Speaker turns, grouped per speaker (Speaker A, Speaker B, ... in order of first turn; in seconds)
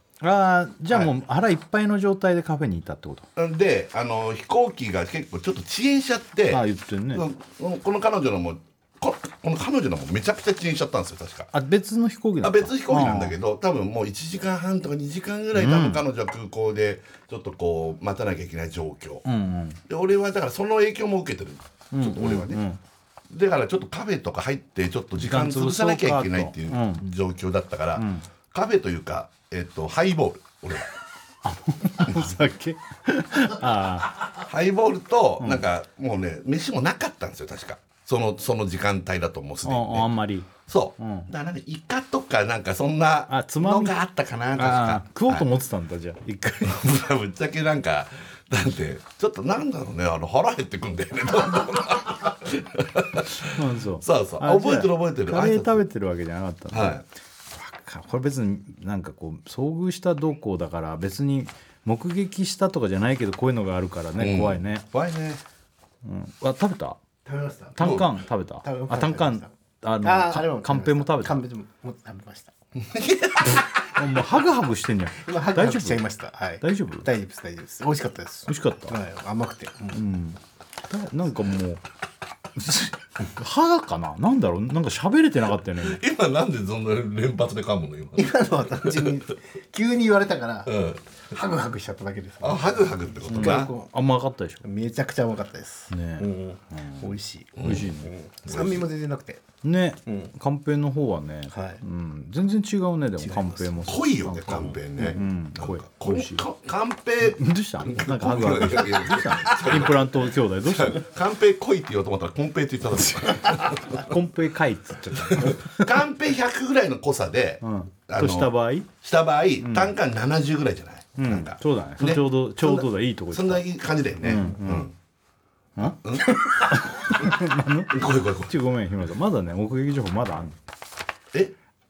Speaker A: 0.2-3.3, 6.5-7.2, 11.5-13.3, 15.5-16.0, 19.2-19.8, 21.9-22.8, 25.2-27.1, 27.9-28.3, 31.4-34.2, 39.6-41.3, 43.3-44.0, 44.6-46.9, 53.5-57.0, 57.5-64.8, 66.0-67.0, 67.8-71.4, 73.9-76.0, 76.6-77.1, 78.5-79.0, 79.9-81.8, 82.5-86.0, 93.3-94.6, 95.9-98.1, 99.6-106.4, 107.2-111.1, 113.9-115.9, 117.6-118.9, 119.6-119.9, 121.2-123.7, 124.2-124.9, 125.8-130.6
Speaker B: 3.4-11.5, 12.4-19.2, 19.9-22.6, 23.3-30.9, 34.2-45.5, 46.6-55.8, 56.7-57.0, 64.2-65.4, 67.8-68.2, 72.8-73.7, 85.8-89.2, 90.7-91.0, 92.4-93.7, 97.6-98.9, 103.5-114.1, 115.2-124.9, 125.8-127.3, 127.9-128.5
Speaker C: 67.2-68.0, 68.6-69.5, 70.0-72.5, 75.2-80.0, 88.2-90.7, 91.3-93.9, 94.6-99.4, 101.5-101.8, 105.0-105.2